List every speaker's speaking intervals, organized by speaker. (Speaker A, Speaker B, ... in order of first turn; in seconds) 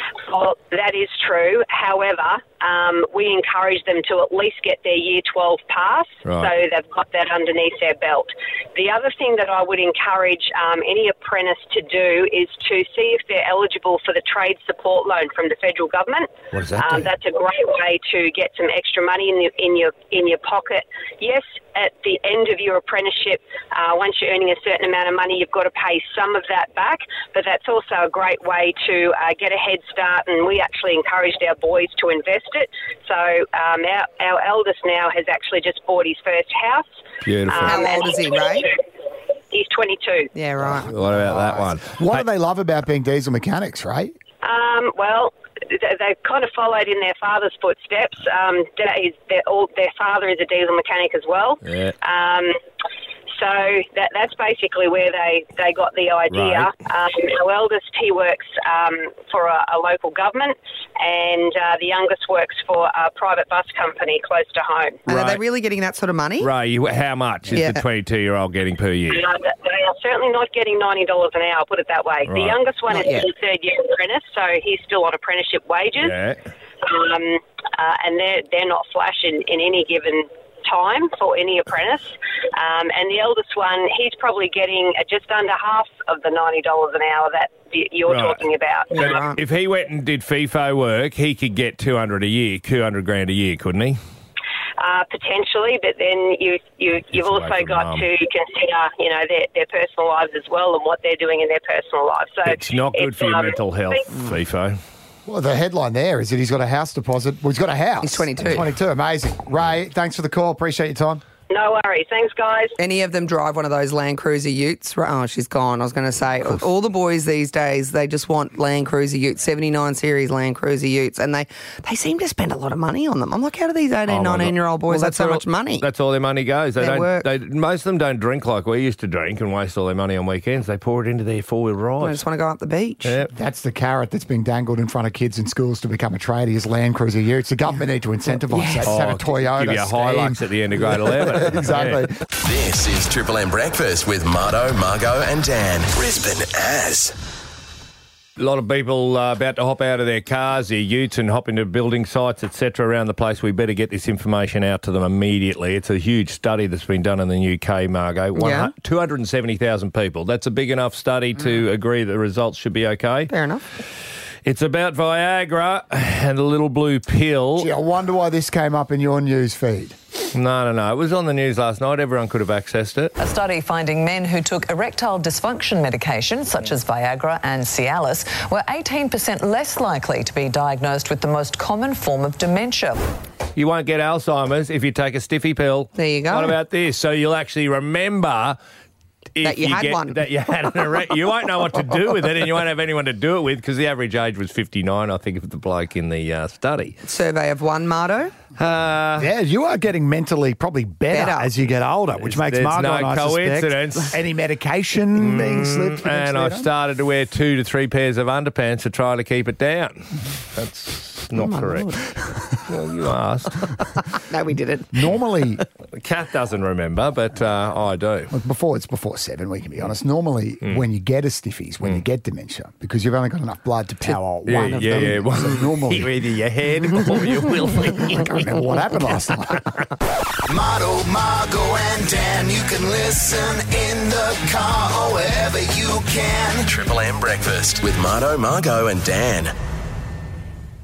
Speaker A: 0.3-36.9, 37.5-38.7, 39.5-40.3, 44.4-52.6, 53.4-65.0, 69.1-76.2, 76.8-89.2, 94.8-104.0, 111.5-112.7
Speaker B: 6.2-6.5, 16.5-17.1, 37.2-37.8, 40.9-42.2, 51.7-51.9, 56.3-56.7, 65.1-65.4, 66.4-69.2, 72.3-72.6, 76.0-76.4, 88.1-94.0, 97.1-98.1, 102.5-104.8, 124.1-132.2, 133.0-133.3, 138.8-142.1, 148.4-163.3, 164.4-167.7, 170.3-173.1, 183.6-188.6, 189.4-197.0, 198.6-199.3, 202.2-204.2, 205.2-211.9, 212.7-213.7, 216.0-218.3, 224.5-228.5
Speaker C: 37.6-38.7, 40.3-40.9, 65.1-66.5, 67.5-67.8, 72.9-73.3, 88.9-89.4, 108.0-108.7, 112.8-125.8, 126.8-127.3, 132.0-133.1, 138.5-138.9, 158.4-158.7, 163.3-163.6, 186.0-186.6, 189.4-190.2, 197.0-198.3, 201.1-201.5, 211.3-212.0, 214.1-215.0
Speaker D: 40.9-44.1, 105.3-111.2, 133.3-142.1, 167.6-170.0, 199.2-206.7, 214.9-215.6, 218.3-226.1, 228.2-229.7
Speaker E: 142.4-147.2, 236.7-239.5
Speaker F: 173.2-183.0
Speaker G: 230.5-236.7